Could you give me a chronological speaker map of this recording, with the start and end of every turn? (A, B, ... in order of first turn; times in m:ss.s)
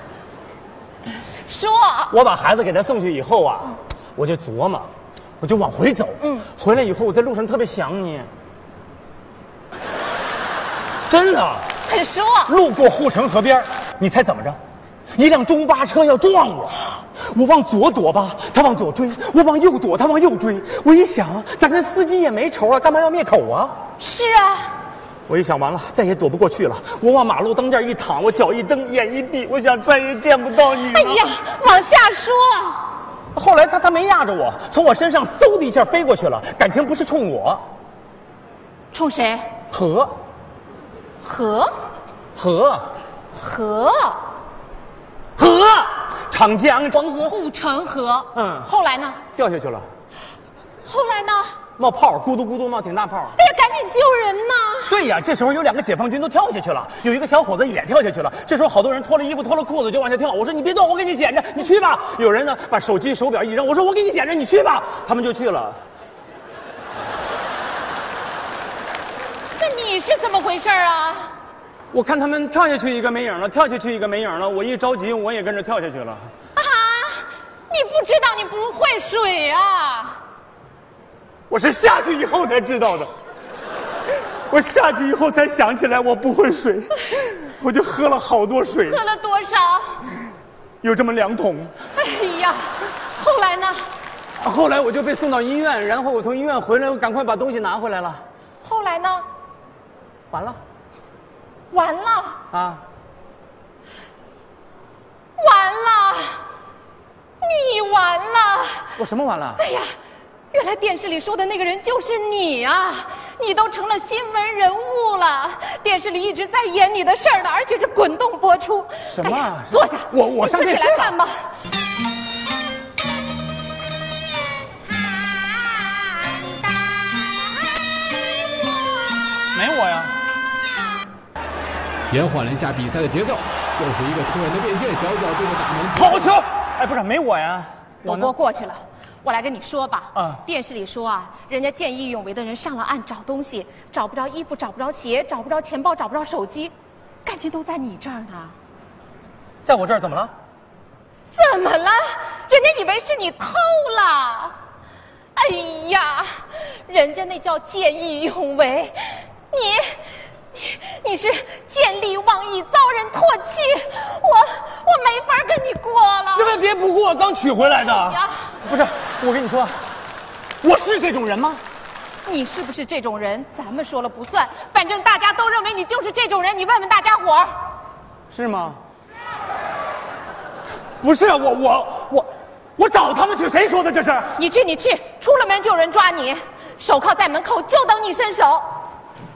0:01.4-0:02.1 A
0:02.1-0:04.9 B
0:05.4-0:08.3 B
0:06.2-0:06.5 A
0:11.1-0:11.7 B
0:11.8-0:12.5 A
0:12.4-0:14.6 B
0:15.1-0:23.8 B
0:24.0-0:24.7 A
0:25.3-0:31.3 B
0:30.9-0:32.9 A
0:33.3-0:37.6 B
0:38.9-0:39.5 A
0:39.7-0:40.1 B
0:41.2-0:41.7 A
0:42.4-0:42.9 B
0:43.3-0:44.3 A
0:45.4-0:47.4 B
0:47.2-0:49.2 A
0:48.3-0:48.7 B
0:49.4-0:49.8 B
0:50.8-0:51.6 A
0:51.8-0:53.4 B
0:53.4-0:55.0 A
0:54.9-1:05.8 B
1:09.6-1:11.3 A
1:11.9-1:16.3 B
1:16.5-1:20.2 A
1:21.5-1:23.1 B
1:24.5-1:29.0 B
1:28.8-1:30.0 A
1:30.8-1:31.7 B
1:32.0-1:33.9 A
1:34.4-1:38.2 B
1:38.6-1:39.2 A
1:40.3-1:40.6 B
1:41.7-1:42.4 A
1:42.5-1:42.8 B
1:45.4-1:46.4 A
1:47.4-1:48.9 A
1:49.0-1:49.6 B
1:49.6-1:49.9 A
1:50.5-2:01.3 A
1:59.1-2:01.2 B
2:09.5-2:10.1 B
2:12.1-2:16.0 C
2:15.9-2:18.3 B
2:18.0-2:26.7 A
2:20.1-2:20.4 B
2:27.2-2:28.5 A
2:29.6-2:30.3 B
2:31.3-2:34.5 A
2:35.3-2:46.6 A
2:46.3-2:49.8 B
2:47.8-2:48.5 A
2:50.6-2:51.6 B
2:52.2-2:57.5 A
2:58.3-2:58.8 B
3:01.0-3:04.3 B
3:04.4-3:08.7 A